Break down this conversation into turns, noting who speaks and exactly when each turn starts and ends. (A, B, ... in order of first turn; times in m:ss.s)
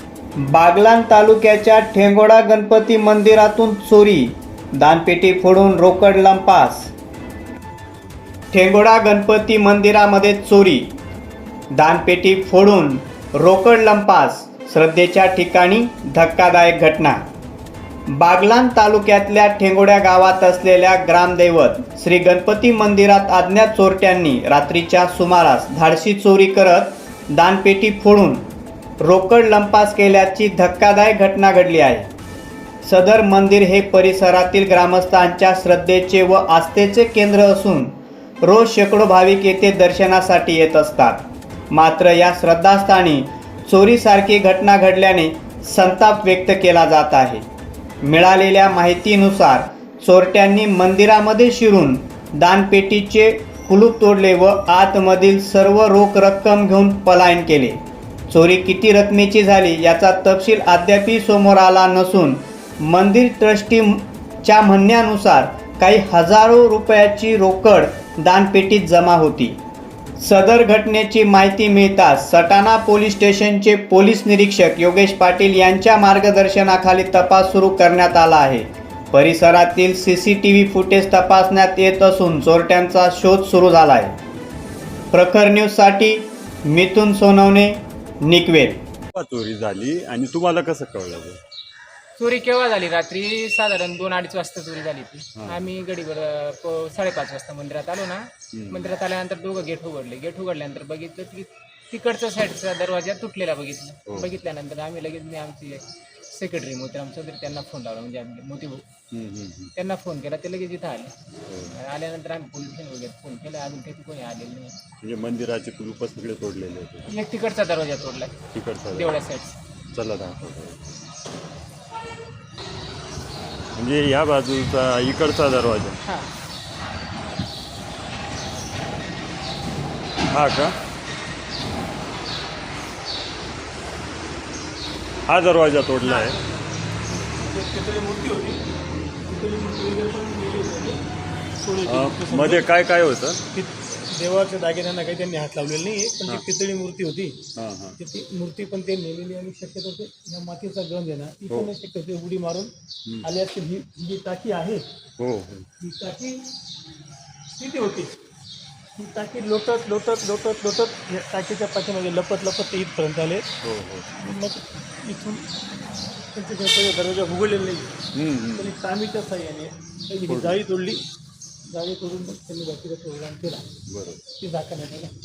0:00.4-0:06.9 A
0:08.5-0:10.9 A
0:11.7-0:17.2 A
0:18.1-0:28.5 A
0:29.0-0:32.1 A
0:32.8-0:47.4 A
0:48.0-1:09.6 A
1:10.2-1:24.2 A
1:25.1-1:28.8 A
1:29.1-1:31.4 B
1:32.2-1:48.8 C
1:35.4-1:35.6 B
1:38.5-1:38.8 B
1:49.1-1:49.7 B
1:49.7-1:51.1 C
1:51.4-1:51.7 B
1:51.7-1:54.8 C
1:55.0-1:57.1 B
1:57.1-1:58.3 C
1:58.5-1:59.2 B
1:58.9-1:59.6 C
1:59.9-2:00.8 B
2:03.8-2:06.0 B
2:10.3-2:10.8 B
2:15.3-2:16.4 B
2:17.3-2:18.6 D
2:19.3-2:21.0 D
2:21.6-2:22.7 D
2:21.8-2:23.4 B
2:23.5-2:27.4 D
2:27.5-2:28.0 B
2:28.0-2:32.7 D
2:33.2-2:34.8 D
2:35.2-2:35.7 B
2:35.8-2:36.4 D
2:37.5-2:38.2 D
2:39.0-2:43.5 D
2:43.6-2:44.2 B
2:44.2-2:45.4 D
2:46.3-2:48.0 D
2:48.1-2:48.7 B
2:48.5-2:51.0 D
2:50.3-2:50.6 B
2:51.6-2:53.6 D
2:53.9-2:54.2 B
2:54.4-2:55.1 D